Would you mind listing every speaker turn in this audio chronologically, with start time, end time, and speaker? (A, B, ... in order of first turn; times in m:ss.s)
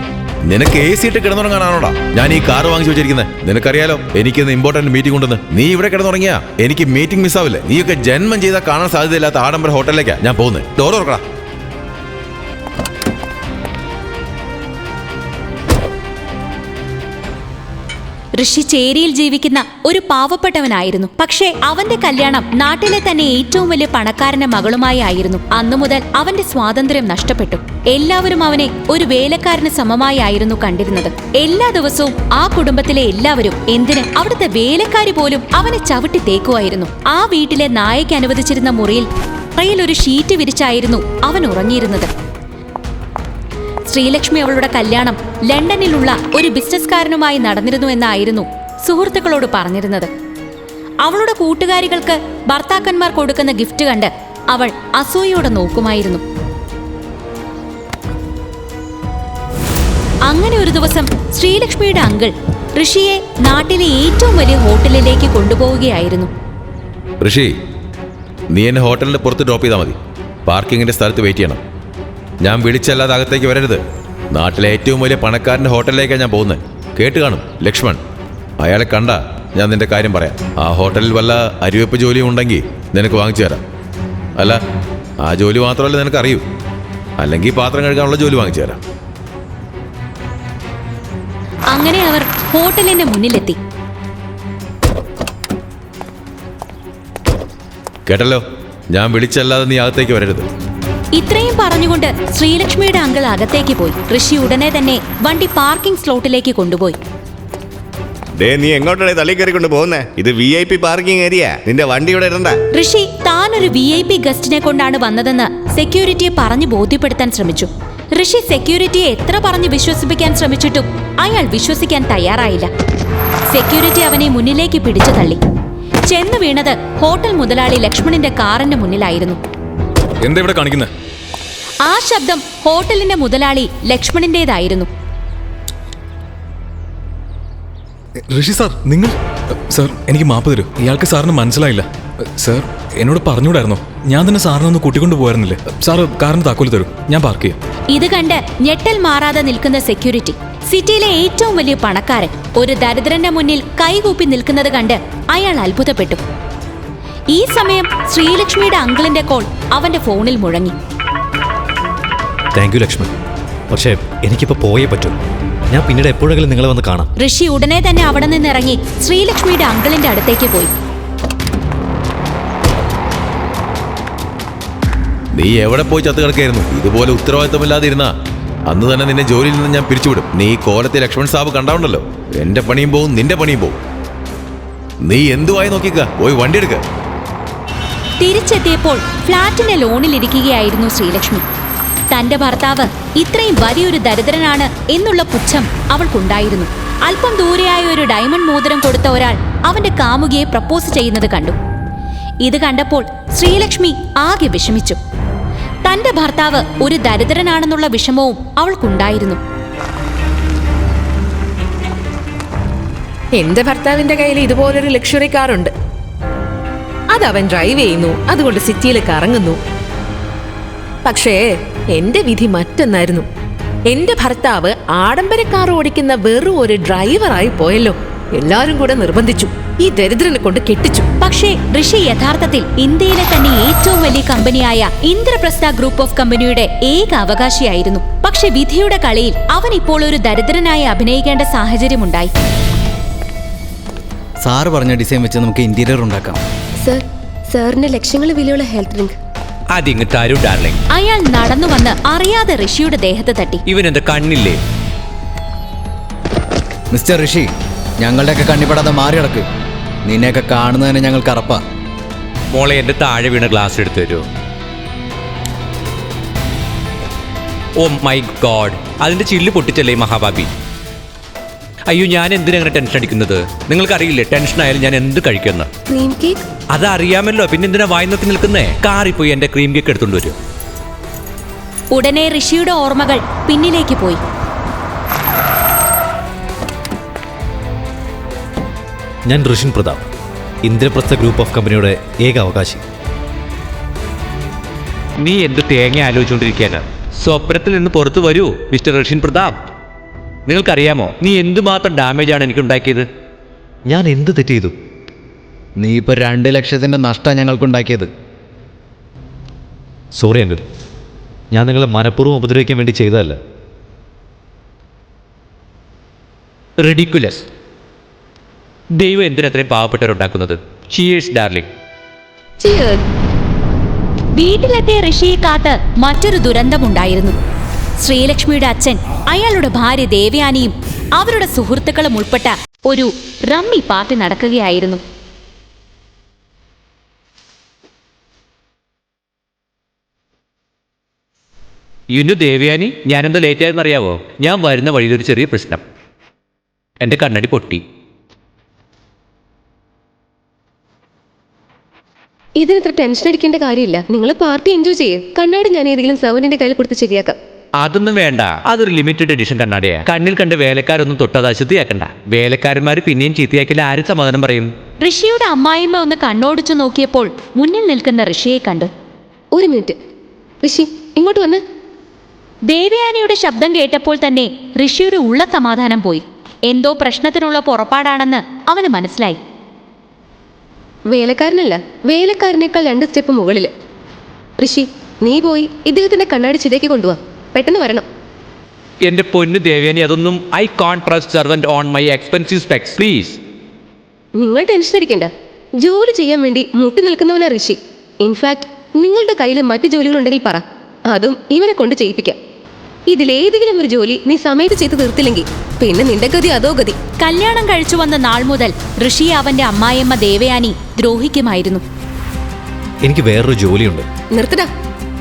0:00.4-0:11.2 A
0:18.4-0:42.1 B
0:43.9-0:50.1 B
0:51.0-0:56.2 B
1:00.3-1:06.3 B
1:07.2-1:07.5 A
1:08.5-1:11.6 A
1:12.4-1:13.8 A
1:14.3-1:18.0 A
1:18.6-1:23.6 A
1:25.2-1:26.4 A
1:27.2-1:28.8 A
1:31.7-1:33.6 B
1:38.1-1:40.5 A
1:41.2-1:47.0 B
1:48.4-1:52.6 C
1:52.7-2:02.7 B
2:03.5-2:05.4 B
2:06.1-2:09.4 B
2:10.2-2:10.9 D
2:11.8-2:14.9 B
2:18.3-2:19.2 D
2:19.7-2:27.6 D
2:27.9-2:36.2 B
2:37.3-2:40.8 B
2:42.5-2:43.1 E
2:43.7-2:45.2 E
2:45.7-2:47.1 E
2:47.2-2:50.7 B
2:55.3-2:58.1 A
2:58.7-3:03.8 A
3:05.0-3:06.8 A
3:08.2-3:11.4 B
3:12.1-3:21.6 B
3:22.4-3:25.0 B
3:25.8-3:29.4 B
3:33.4-3:35.7 F
3:37.1-3:39.6 F
3:41.0-3:43.3 F
3:43.9-3:51.1 F
3:51.2-4:02.3 B
4:04.4-4:06.4 G
4:06.8-4:09.2 H
4:09.7-4:10.8 I
4:10.9-4:13.6 B
4:13.7-4:14.6 I
4:16.9-4:17.5 G
4:18.0-4:19.5 G
4:20.1-4:21.6 G
4:22.5-4:24.2 I
4:27.8-4:30.5 I
4:31.9-4:35.7 I
4:35.9-4:36.4 H
4:36.7-4:40.4 I
4:41.9-4:44.2 B
4:49.3-4:50.0 E
4:50.6-4:52.8 E
4:55.2-4:59.6 I
5:00.5-5:03.0 I
5:03.9-5:04.8 E
5:05.8-5:08.1 G
5:10.2-5:10.6 E
5:11.5-5:13.4 E
5:16.8-5:17.4 I
5:19.0-5:21.7 I
5:22.6-5:23.0 F
5:24.4-5:27.4 B
5:28.0-5:35.0 B
5:42.1-5:45.8 I
5:47.0-5:47.8 I
5:52.6-5:57.4 H
5:57.8-6:04.7 I
6:05.0-6:08.9 B
6:09.5-6:10.0 H
6:10.6-6:11.6 H
6:12.7-6:19.4 B
6:21.1-6:23.7 H
6:24.6-6:28.0 H
6:29.0-6:33.4 I
6:34.4-6:35.3 H
6:35.8-6:42.4 H
6:43.1-6:47.0 H
6:47.2-6:51.8 B
6:53.0-6:54.1 E
6:54.3-6:54.7 H